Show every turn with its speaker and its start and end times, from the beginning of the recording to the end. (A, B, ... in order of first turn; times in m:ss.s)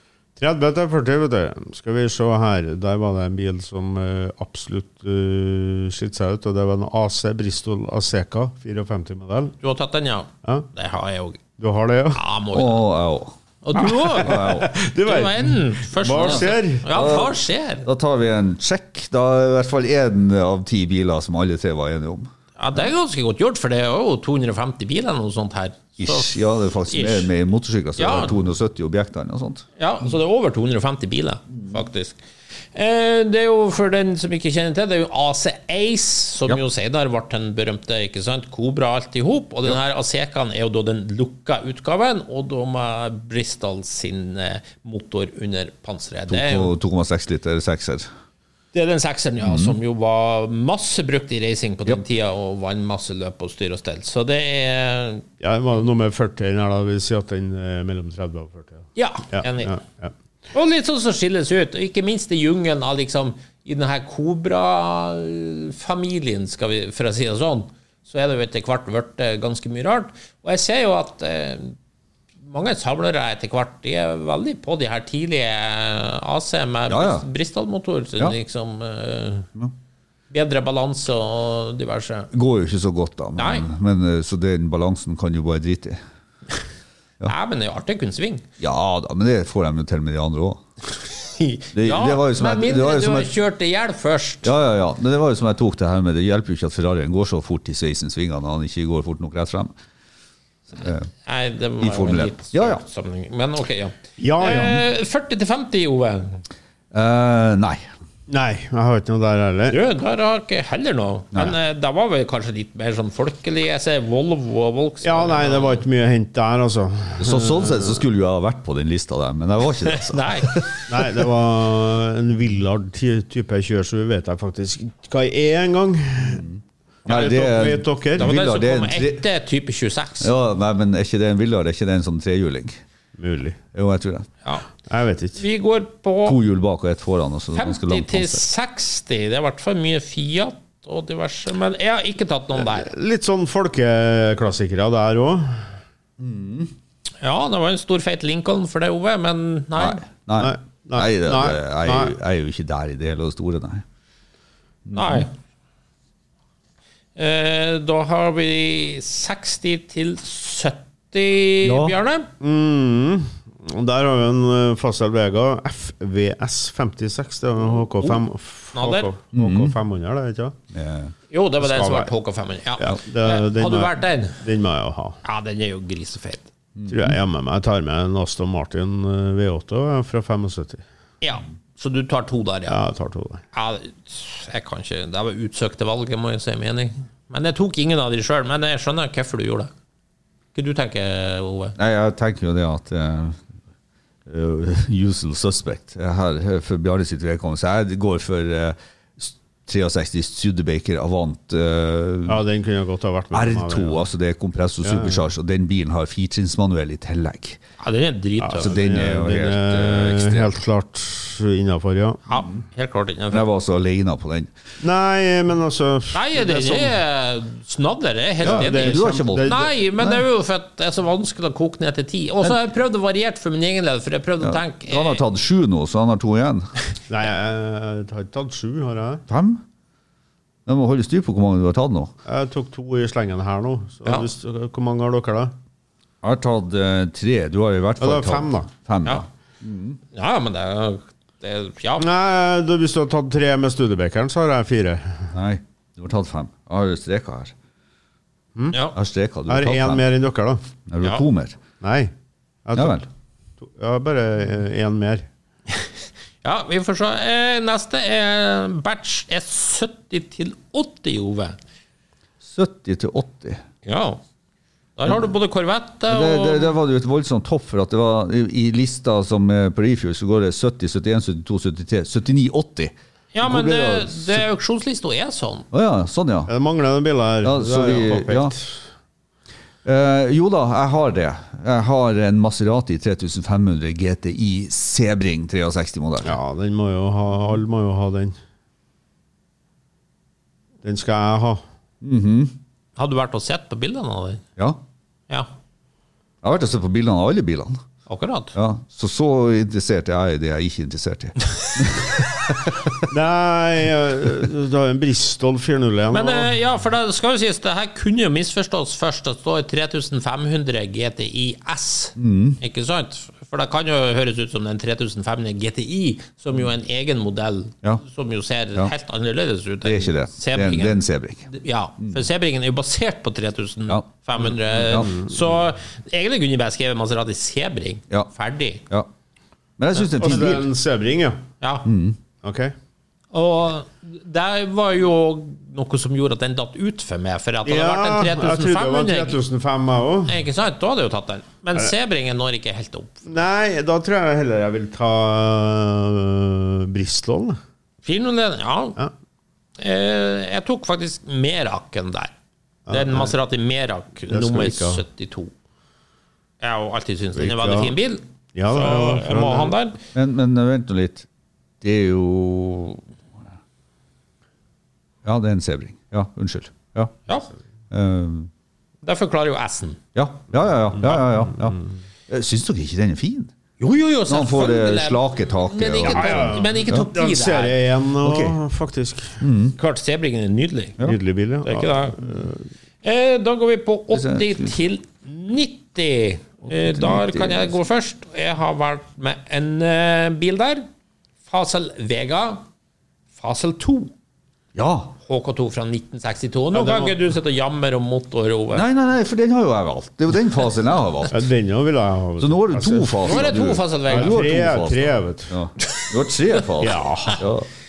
0:00.4-0:09.5 A
0:09.6-0:11.4 B
0:11.6-0:12.2 A
0:12.1-0:12.8 B
0:12.5-0:13.3 C
0:13.6-0:14.4 B
0:13.8-0:16.9 A
0:14.2-0:14.7 C
0:15.0-0:17.9 B
0:16.2-0:22.3 C
0:22.6-0:27.3 B
0:26.0-0:29.6 C
0:28.0-0:28.4 B
0:29.8-0:32.2 B
0:32.7-0:46.7 B
0:46.3-0:48.1 C
0:48.7-0:55.2 B
0:49.4-0:49.8 C
0:55.4-1:00.1 A
0:59.0-0:59.8 B
1:00.5-1:11.8 B
1:12.4-1:19.5 B
1:16.9-1:17.2 C
1:20.3-1:22.3 B
1:22.3-1:26.0 C
1:23.4-1:23.6 B
1:27.2-1:28.4 B
1:28.6-1:30.6 C
1:31.1-1:34.5 B
1:31.7-1:33.3 C
1:34.4-1:39.7 C
1:40.7-1:41.1 C
1:41.2-1:46.4 B
1:41.8-1:42.8 C
1:44.2-1:44.8 A
1:46.9-1:47.8 C
1:48.3-1:49.8 A
1:49.7-1:55.8 B
1:55.0-1:58.0 A
1:57.2-2:01.1 C
1:59.8-2:00.8 B
2:00.9-2:06.4 A
2:06.3-2:09.2 C
2:07.0-2:08.3 A
2:08.2-2:10.3 B
2:10.2-2:12.8 C
2:13.2-2:13.6 A
2:13.7-2:14.3 C
2:14.9-2:15.4 A
2:15.4-2:16.4 B
2:16.2-2:18.4 C
2:17.5-2:22.9 B
2:22.6-2:25.7 A
2:26.2-2:26.7 C
2:27.2-2:30.0 B
2:29.8-2:33.8 C
2:30.4-2:32.1 A
2:34.8-2:35.3 C
2:34.9-2:35.3 B
2:37.2-2:42.3 B
2:41.6-2:41.9 C
2:42.4-2:50.6 A
2:48.7-2:49.1 B
2:49.3-2:49.8 C
2:50.7-2:51.1 C
2:51.3-2:54.4 B
2:51.6-2:52.1 A
2:52.8-2:55.2 A
2:55.2-2:56.5 B
2:56.8-2:57.2 C
2:56.9-3:00.8 A
3:01.2-3:02.8 B
3:02.7-3:03.4 A
3:03.5-3:09.7 B
3:10.5-3:11.8 B
3:11.8-3:13.4 C
3:14.2-3:22.4 C
3:22.3-3:24.0 A
3:23.3-3:27.6 C
3:24.8-3:25.2 A
3:27.8-3:28.8 B
3:28.4-3:32.2 A
3:28.6-3:30.5 C
3:32.3-3:33.4 B
3:33.3-3:34.5 C
3:34.8-3:37.0 A
3:36.1-3:45.2 B
3:38.4-3:39.7 A
3:38.4-3:40.2 C
3:44.4-3:46.7 C
3:47.1-3:49.2 A
3:49.3-3:49.6 C
3:50.6-3:52.1 C
3:52.2-3:55.5 A
3:56.2-4:00.0 C
3:58.0-3:58.7 A
4:00.1-4:02.1 B
4:02.0-4:05.3 A
4:05.3-4:07.5 C
4:08.9-4:10.0 C
4:09.5-4:10.6 A
4:10.9-4:11.6 C
4:11.8-4:12.1 A
4:12.6-4:13.0 A
4:12.7-4:13.0 C
4:13.6-4:15.2 A
4:16.4-4:21.6 B
4:22.4-4:23.6 C
4:23.8-4:24.2 B
4:25.0-4:26.7 B
4:26.1-4:34.4 C
4:33.3-4:35.7 B
4:35.7-4:36.5 C
4:36.5-4:38.8 A
4:37.4-4:38.5 C
4:39.8-4:46.4 C
4:46.2-4:48.4 A
4:50.8-4:51.6 A
4:52.0-4:52.5 C
4:53.0-4:54.4 B
4:56.4-4:57.8 C
4:58.1-4:58.5 B
4:58.5-5:02.9 C
5:03.1-5:06.5 A
5:06.1-5:28.8 B
5:12.2-5:12.6 C
5:19.8-5:21.5 C
5:24.8-5:25.4 A
5:29.8-5:30.7 C
5:30.1-5:31.4 A
5:31.6-5:31.9 B
5:31.8-5:32.2 C
5:32.4-5:32.7 A
5:33.3-5:39.4 B
5:37.6-5:40.4 A
5:40.3-5:43.2 B
5:43.2-5:47.6 A
5:48.0-5:49.0 B
5:49.8-5:52.3 B
5:52.9-5:53.3 A
5:52.9-5:55.5 B
5:54.3-5:55.0 A
5:56.6-6:00.0 B
5:57.3-5:57.9 A
5:58.5-5:59.7 A
6:00.1-6:01.3 C
6:01.8-6:03.0 C
6:05.2-6:07.1 C
6:07.9-6:08.5 C
6:09.0-6:10.0 B
6:10.1-6:13.5 C
6:13.8-6:17.8 B
6:14.3-6:17.1 C
6:16.0-6:19.4 A
6:18.2-6:18.6 C
6:19.4-6:19.8 C
6:19.8-6:21.0 B
6:21.0-6:22.6 A
6:21.6-6:22.2 B
6:23.0-6:30.9 B
6:24.1-6:24.7 C
6:26.6-6:27.7 C
6:31.5-6:32.6 B
6:33.4-6:34.1 B
6:34.7-6:35.1 C
6:35.2-6:38.8 B
6:36.7-6:37.2 A
6:38.7-6:41.4 C
6:41.3-6:43.5 A
6:42.4-6:47.7 C
6:43.2-6:44.4 B
6:44.1-6:45.5 A
6:46.8-6:47.4 A